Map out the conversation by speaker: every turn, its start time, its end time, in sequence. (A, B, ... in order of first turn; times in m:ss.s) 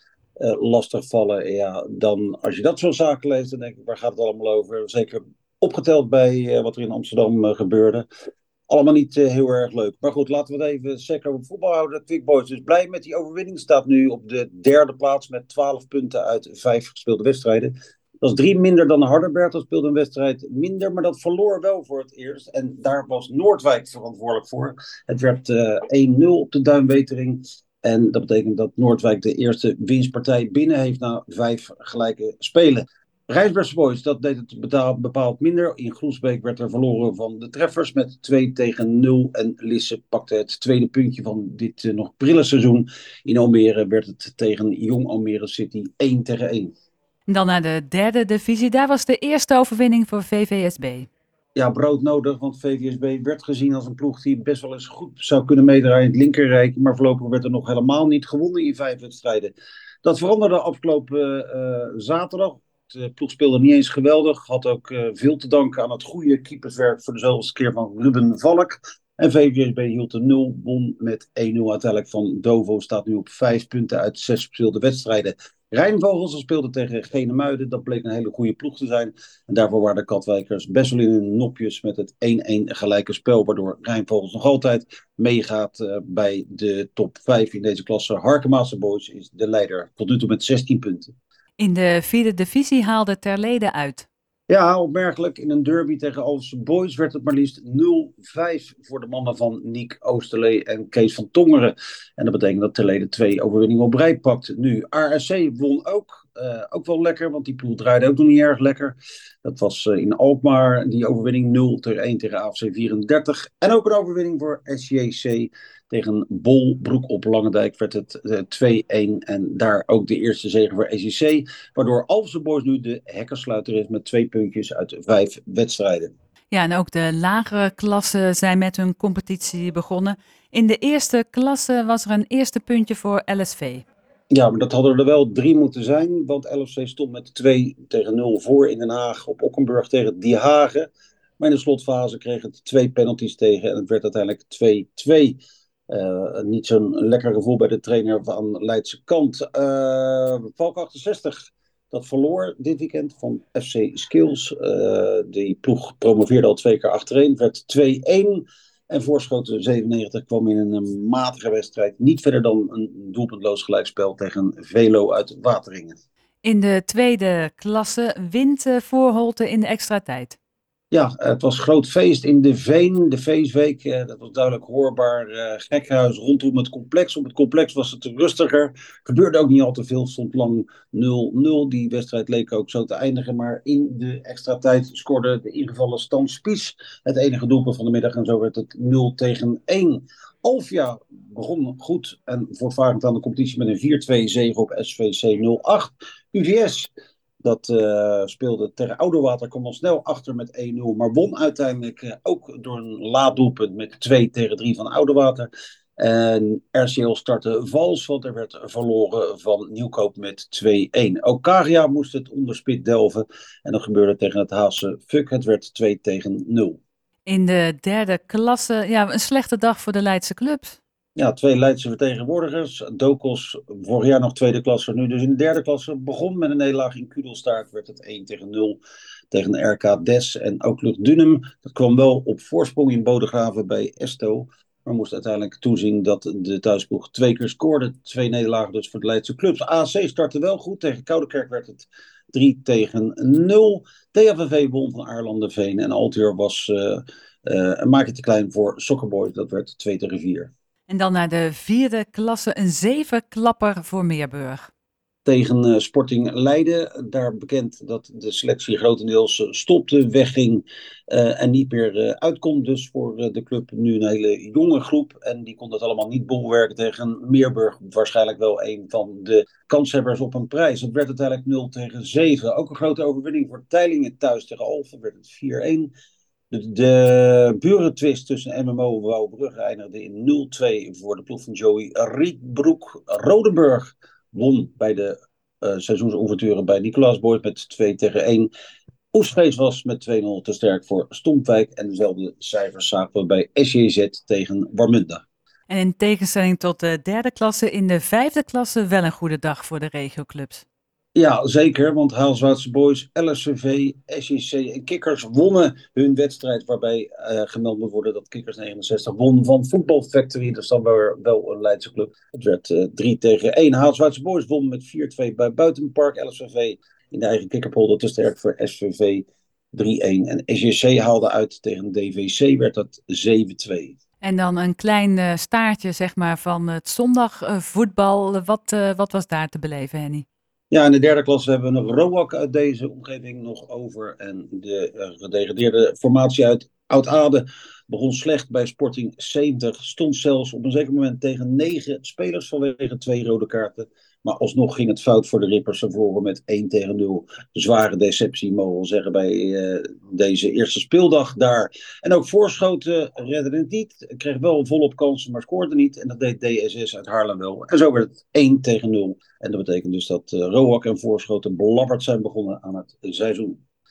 0:00.4-0:08.1 A
0:08.7-0:46.7 A
0:47.3-0:51.1 B
0:51.6-1:31.1 A
1:31.6-1:34.1 B
1:34.5-2:06.1 A
2:06.5-2:13.8 B
2:14.3-2:20.9 A
2:21.4-2:46.0 A
2:46.4-2:50.4 B
2:50.9-3:16.9 A
3:17.4-3:36.8 A
3:37.3-3:40.8 B
3:41.2-3:48.8 A
3:49.3-4:10.5 A
4:10.9-4:14.7 B
4:15.3-4:35.9 A
4:36.5-4:48.5 A
4:49.1-4:55.2 A
4:55.7-5:00.6 B
5:01.2-5:24.0 A
5:24.2-5:30.2 B
5:30.7-6:03.6 A